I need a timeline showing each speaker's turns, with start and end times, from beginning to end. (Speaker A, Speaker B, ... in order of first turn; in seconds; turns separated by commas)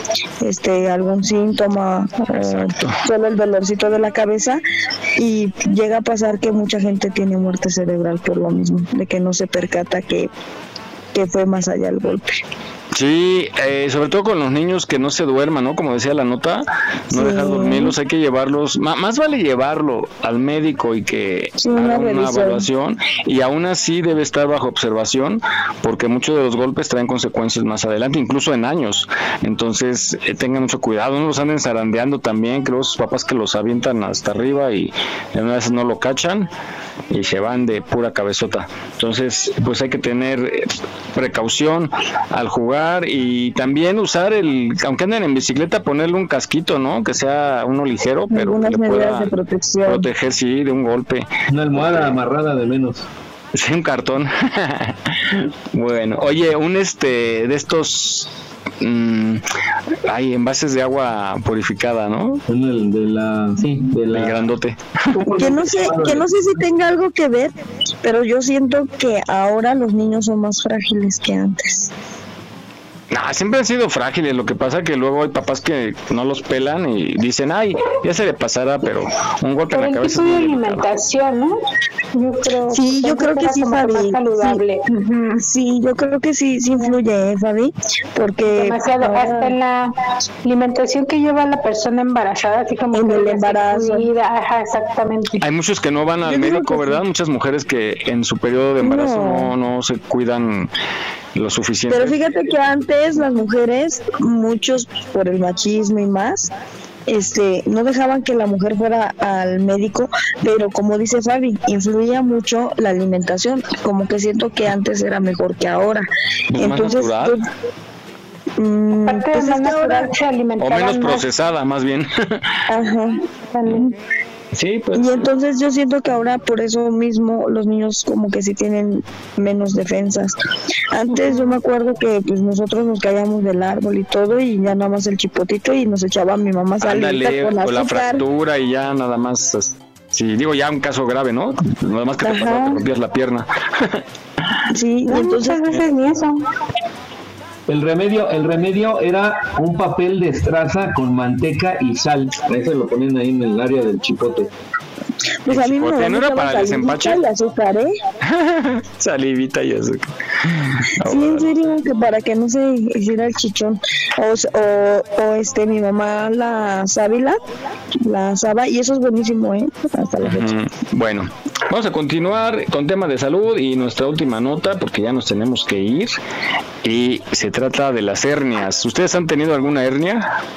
Speaker A: 0.4-4.6, Speaker B: 2.3-3.0, Speaker A: 5.2-10.3, Speaker A: 11.1-12.4, Speaker B: 12.9-36.5, Speaker A: 17.1-17.9, Speaker A: 21.6-22.7, Speaker B: 37.1-49.3, Speaker A: 48.3-50.1, Speaker B: 49.8-52.2, Speaker C: 51.5-53.0, Speaker B: 53.5-58.3, Speaker B: 58.8-59.4, Speaker B: 60.0-62.4, Speaker C: 62.5-64.4, Speaker B: 64.1-65.2, Speaker C: 65.2-66.3, Speaker A: 65.3-71.9, Speaker B: 73.1-80.9, Speaker D: 79.7-81.5, Speaker D: 82.2-84.8, Speaker A: 82.7-89.5, Speaker D: 88.5-89.9, Speaker D: 90.4-95.4, Speaker A: 92.9-94.0, Speaker B: 95.4-100.7, Speaker A: 96.2-97.0, Speaker A: 98.8-99.5, Speaker B: 101.3-102.2, Speaker A: 101.9-106.5, Speaker A: 107.1-116.0, Speaker B: 116.5-117.4, Speaker A: 116.6-117.4, Speaker A: 118.6-120.1, Speaker D: 119.0-121.3, Speaker B: 120.6-122.4, Speaker A: 122.7-123.9, Speaker D: 123.5-123.8, Speaker B: 124.5-125.3, Speaker A: 124.9-130.3, Speaker A: 130.9-138.2, Speaker B: 136.8-144.0, Speaker A: 142.2-142.8, Speaker A: 144.7-145.8, Speaker D: 145.1-146.4, Speaker C: 147.7-154.5, Speaker A: 155.4-157.9, Speaker B: 155.5-157.2, Speaker B: 158.3-161.5, Speaker A: 161.0-167.4, Speaker A: 168.0-170.5, Speaker B: 170.2-176.2, Speaker B: 176.8-180.3